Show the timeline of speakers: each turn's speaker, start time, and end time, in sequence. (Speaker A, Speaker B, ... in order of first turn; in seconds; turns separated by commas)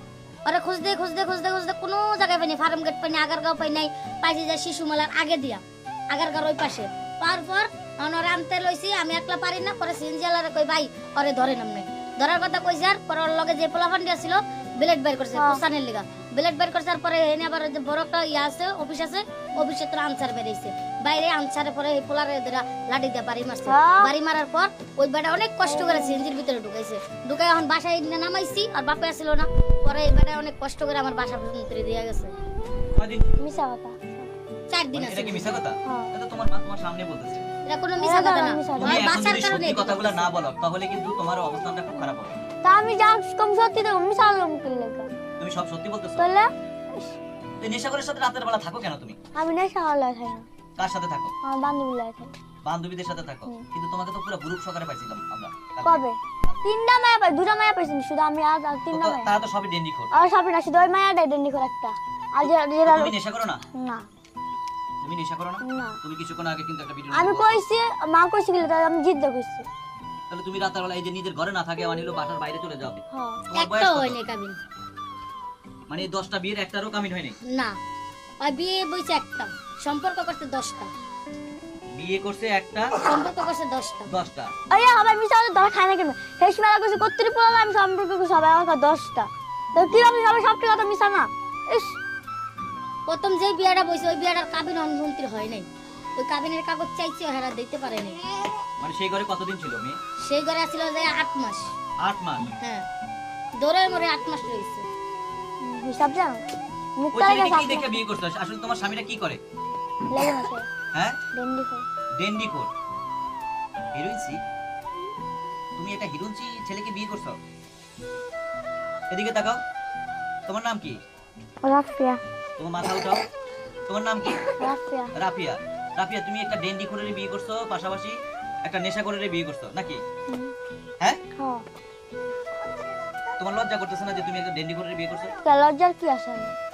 Speaker A: 0.4-32.3, Speaker B: 15.3-15.6, Speaker B: 23.6-24.1, Speaker B: 25.6-26.2, Speaker C: 33.0-33.4, Speaker B: 33.4-34.3, Speaker A: 34.7-35.6, Speaker C: 34.9-37.5, Speaker B: 35.9-36.1, Speaker A: 37.6-40.3, Speaker B: 38.0-39.1, Speaker C: 38.8-42.3, Speaker B: 41.9-45.1, Speaker C: 45.4-46.3, Speaker B: 46.2-47.2, Speaker C: 47.6-49.1, Speaker B: 49.4-50.5, Speaker C: 50.8-51.3, Speaker B: 51.4-52.3, Speaker C: 52.6-56.6, Speaker B: 55.8-59.3, Speaker C: 58.9-60.1, Speaker B: 60.1-63.1, Speaker C: 62.4-63.6, Speaker B: 63.7-64.0, Speaker C: 65.0-67.6, Speaker B: 65.6-66.0, Speaker B: 67.1-69.7, Speaker C: 70.3-74.2, Speaker B: 73.1-73.4, Speaker A: 73.5-74.6, Speaker C: 75.9-77.3, Speaker A: 77.5-77.7, Speaker A: 78.4-80.9, Speaker C: 81.9-83.0, Speaker A: 83.0-84.1, Speaker C: 84.1-84.5, Speaker B: 84.7-92.0, Speaker A: 93.1-98.2, Speaker C: 98.8-100.0, Speaker A: 100.2-101.7, Speaker C: 102.0-102.5, Speaker A: 102.6-102.8, Speaker A: 103.6-104.8, Speaker B: 105.6-106.4, Speaker B: 107.0-108.0, Speaker C: 107.1-109.4, Speaker B: 110.1-110.7, Speaker B: 111.3-111.8, Speaker C: 112.2-112.7, Speaker C: 113.9-114.4, Speaker C: 115.8-117.3, Speaker C: 119.1-119.6, Speaker C: 120.5-121.0, Speaker B: 121.6-122.2, Speaker C: 122.6-123.2, Speaker C: 123.9-124.4, Speaker B: 124.6-125.1, Speaker C: 125.2-130.0, Speaker B: 131.4-131.6, Speaker C: 133.4-135.3, Speaker B: 135.4-136.5